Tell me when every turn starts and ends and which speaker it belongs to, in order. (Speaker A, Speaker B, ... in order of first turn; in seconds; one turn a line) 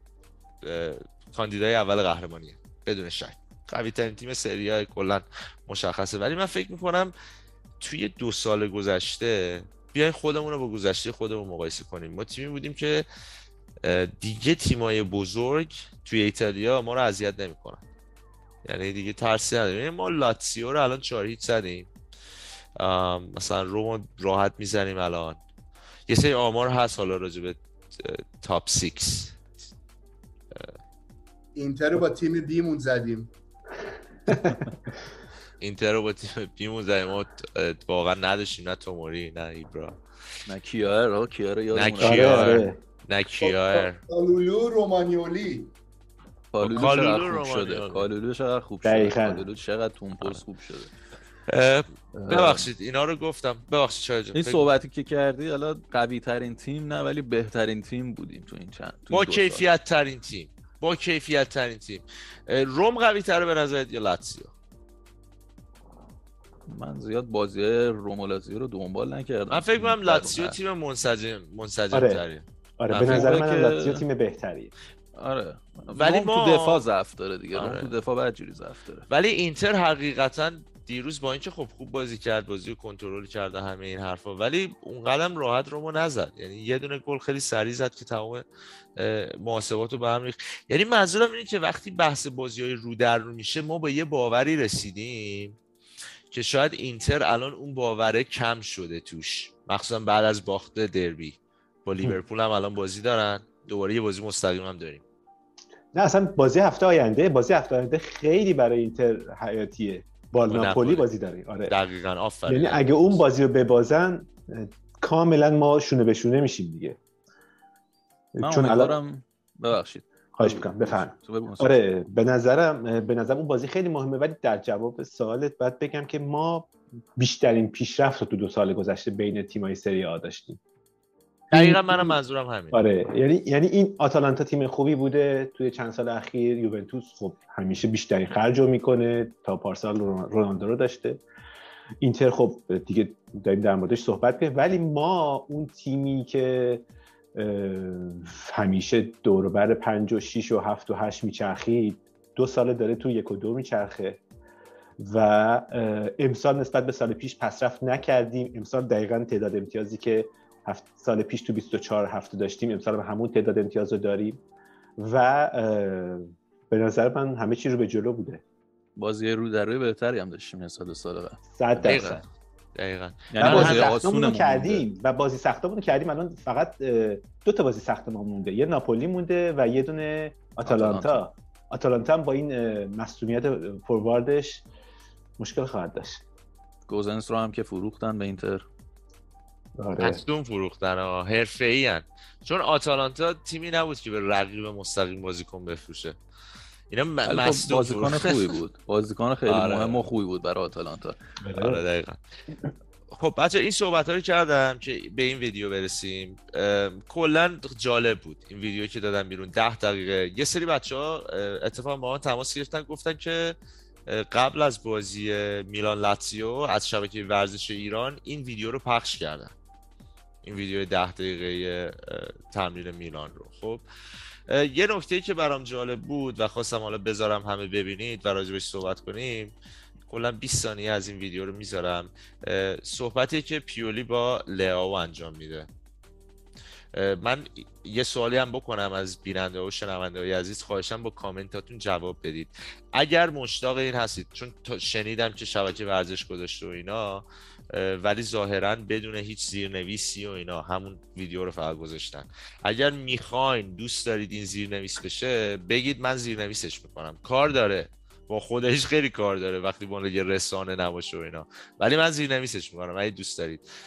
Speaker A: 0.6-7.1
Speaker A: 7.8-13.1
Speaker A: 13.8-17.8
Speaker A: 18.6-21.9
Speaker A: 22.8-25.4
Speaker A: 26.1-29.4
Speaker B: 31.6-33.3
Speaker A: 35.6-40.0
Speaker C: 40.5-42.6
Speaker A: 41.7-44.0
Speaker D: 42.0-42.8
Speaker B: 43.4-45.7
Speaker C: 46.5-50.9
Speaker A: 46.6-48.1
Speaker B: 46.8-47.0
Speaker D: 48.8-49.4
Speaker A: 51.5-54.7
Speaker C: 52.1-52.7
Speaker C: 54.4-59.6
Speaker A: 59.1-64.5
Speaker C: 66.7-70.6
Speaker A: 69.5-73.4
Speaker D: 71.9-72.2
Speaker D: 72.8-74.7
Speaker C: 73.1-74.0
Speaker C: 75.2-79.1
Speaker A: 76.0-76.8
Speaker A: 77.5-77.9
Speaker A: 79.1-88.4
Speaker A: 89.0-95.6
Speaker A: 96.3-105.0
Speaker D: 105.9-111.8
Speaker A: 110.5-111.1
Speaker A: 111.7-113.2
Speaker D: 112.5-117.0
Speaker D: 118.3-119.0
Speaker C: 118.4-121.7
Speaker D: 120.3-130.6
Speaker A: 131.5-132.8
Speaker D: 131.5-132.2
Speaker D: 132.7-141.2
Speaker D: 142.0-154.2
Speaker D: 155.0-164.4
Speaker D: 165.0-168.4
Speaker C: 169.0-172.2
Speaker D: 171.6-172.2
Speaker A: 171.9-172.2
Speaker A: 172.8-173.9
Speaker C: 173.3-174.9
Speaker D: 173.4-184.7
Speaker C: 180.7-181.2
Speaker D: 185.4-186.2
Speaker C: 186.9-188.7
Speaker D: 189.8-190.2
Speaker A: 190.0-196.2
Speaker A: 196.9-198.6
Speaker C: 197.2-201.2
Speaker A: 199.5-200.1
Speaker D: 201.4-201.8
Speaker A: 201.6-202.2
Speaker A: 203.1-219.5
Speaker A: 220.4-223.8
Speaker A: 224.5-229.6
Speaker A: 230.1-235.7
Speaker A: 236.9-263.6